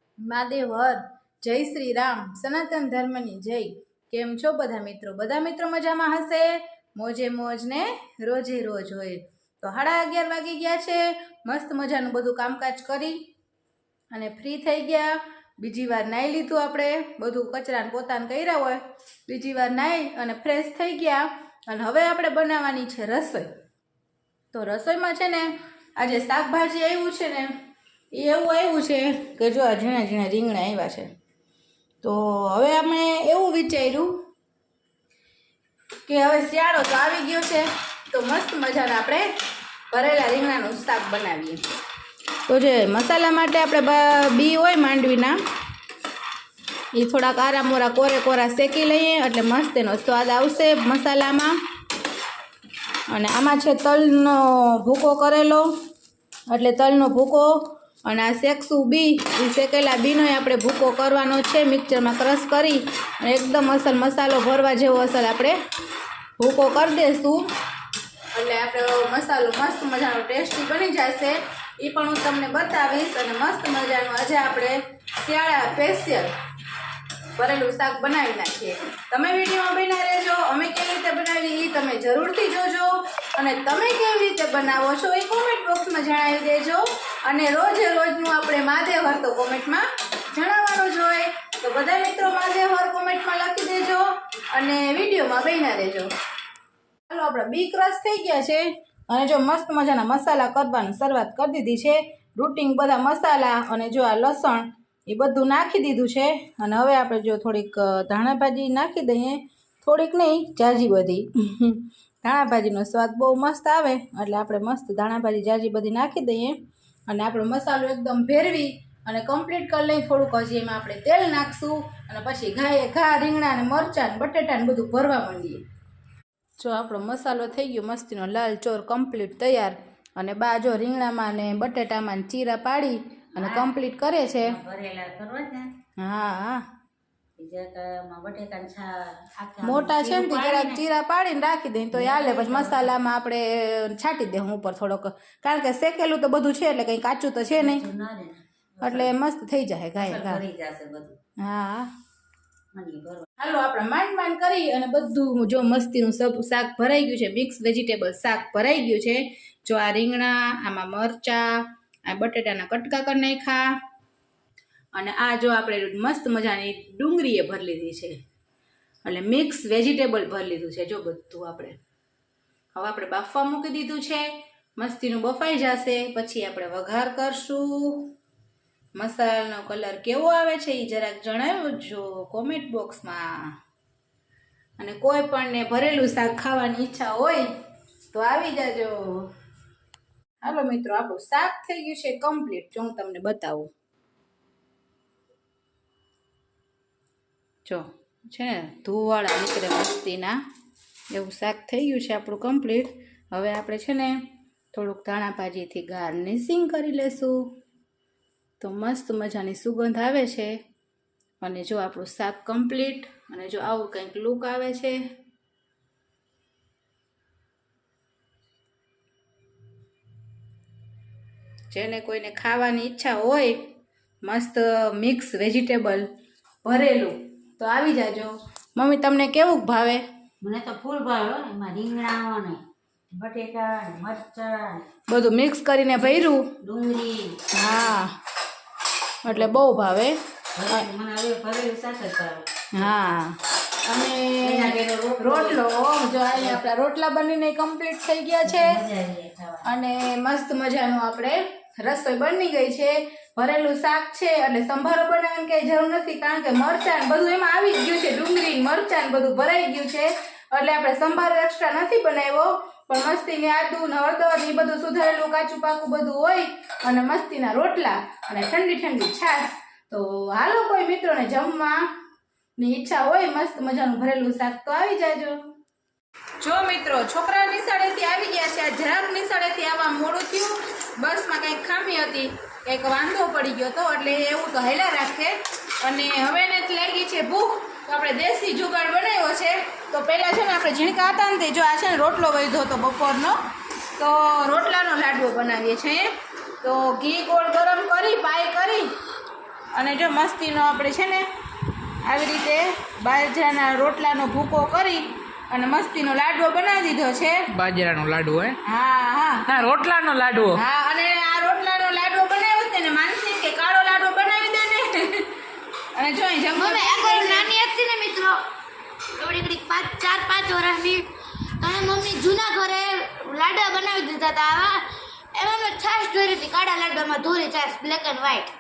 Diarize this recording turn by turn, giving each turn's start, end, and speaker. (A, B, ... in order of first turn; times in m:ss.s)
0:00.2-0:13.2 A
0:14.1-0:23.5 A
0:24.5-0:27.6 A
0:28.1-0:31.1 A
0:32.0-0:34.2 A
0:36.1-0:39.3 A
0:39.9-0:41.6 A
0:42.5-0:45.4 A
0:46.9-0:51.6 A
0:53.1-0:55.7 A
0:56.5-1:05.6 A
1:06.4-1:07.5 A
1:08.3-1:16.3 A
1:17.4-1:36.1 A
1:37.1-1:56.6 A
1:57.1-2:05.6 A
2:06.6-2:14.6 A
2:13.4-2:13.8 B
2:14.4-2:15.8 B
2:16.0-2:16.6 A
2:17.4-2:20.8 B
2:19.6-2:27.8 A
2:21.9-2:23.0 B
2:27.6-2:29.2 B
2:28.8-2:30.4 A
2:30.0-2:31.2 B
2:31.4-2:31.9 A
2:32.7-2:33.2 B
2:33.4-2:43.8 A
2:44.9-2:48.2 A
2:49.0-2:51.8 A
2:52.7-2:58.1 A
2:59.0-3:03.6 A
3:04.8-3:07.5 A
3:08.1-3:09.3 A
3:10.4-3:13.7 A
3:17.7-3:20.4 A
3:21.1-3:27.6 A
3:28.6-3:30.6 A
3:31.4-3:35.0 A
3:41.7-3:43.7 A
3:44.2-3:46.1 A
3:46.6-3:50.0 A
3:50.4-3:52.6 B
3:53.1-3:54.8 B
3:55.1-3:56.5 A
3:56.6-3:57.7 B
3:57.5-3:58.2 A
3:59.2-4:00.9 A
3:59.3-3:59.6 B
4:00.6-4:02.9 B
4:02.7-4:08.8 A
4:04.4-4:05.6 B
4:06.3-4:06.6 B
4:08.4-4:09.6 B
4:09.6-4:31.9 A
4:32.6-4:35.4 A
4:36.4-4:53.4 A
4:54.0-4:58.9 A
4:59.7-5:01.3 A
5:02.0-5:07.5 A
5:07.5-5:08.6 C
5:08.6-5:09.5 A
5:09.5-5:10.6 C
5:10.5-5:15.3 A
5:16.0-5:17.5 A
5:16.6-5:18.4 D
5:19.2-5:21.1 D
5:21.6-5:24.8 D
5:25.4-5:28.5 D